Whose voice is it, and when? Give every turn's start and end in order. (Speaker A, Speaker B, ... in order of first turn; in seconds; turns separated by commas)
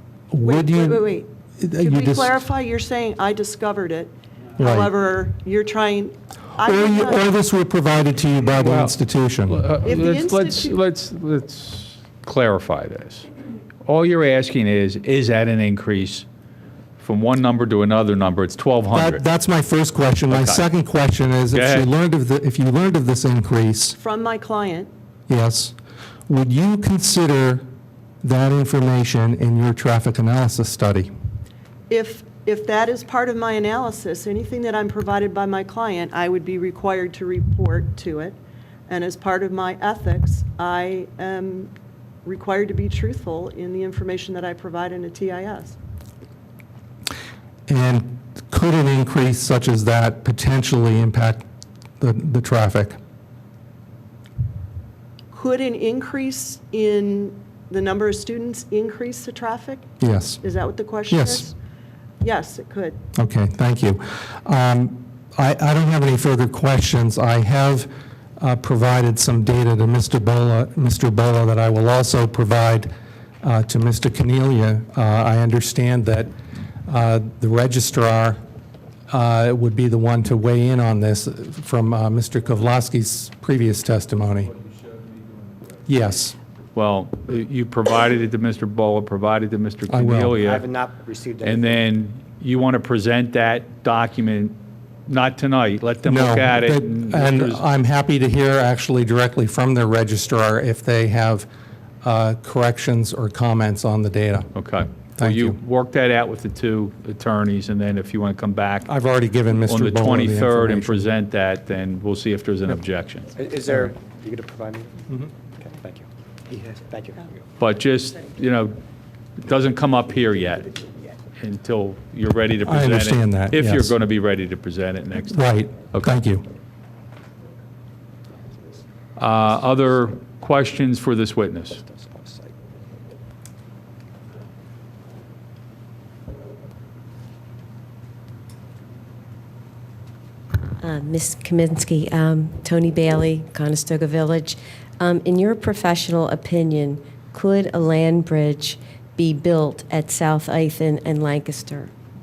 Speaker A: 0.3-2.4, Speaker B: 0.4-7.3, Speaker A: 4.6-4.9, Speaker A: 6.6-9.7, Speaker C: 8.6-8.9, Speaker C: 9.5-13.3, Speaker B: 9.8-10.8, Speaker C: 13.8-16.2, Speaker C: 17.0-19.2, Speaker A: 18.9-24.0, Speaker C: 20.3-20.7, Speaker C: 21.5-21.9, Speaker B: 24.0-24.9, Speaker A: 25.3-25.7, Speaker A: 26.3-27.6, Speaker A: 28.2-31.1, Speaker B: 31.9-38.4, Speaker B: 38.9-41.7, Speaker B: 42.2-45.8, Speaker A: 47.7-51.4, Speaker A: 52.0-53.0, Speaker B: 55.3-59.8, Speaker A: 60.0-60.4, Speaker B: 60.4-61.5, Speaker A: 61.1-61.5, Speaker B: 62.2-63.0, Speaker A: 63.1-72.9, Speaker A: 73.4-76.3, Speaker A: 76.9-78.4, Speaker A: 79.1-84.5, Speaker A: 85.9-86.4, Speaker C: 86.7-90.7, Speaker A: 89.9-90.4, Speaker D: 90.4-91.8, Speaker C: 91.4-97.6, Speaker A: 96.0-101.5, Speaker A: 102.0-104.5, Speaker C: 104.5-108.9, Speaker A: 105.2-105.6, Speaker A: 108.8-111.1, Speaker C: 109.7-113.3, Speaker D: 113.3-117.3, Speaker C: 117.6-118.8, Speaker C: 119.4-120.8, Speaker C: 121.4-126.1, Speaker A: 122.6-123.9, Speaker A: 125.3-126.4, Speaker C: 129.2-131.8, Speaker D: 129.4-129.9, Speaker D: 131.7-132.6, Speaker E: 140.8-151.9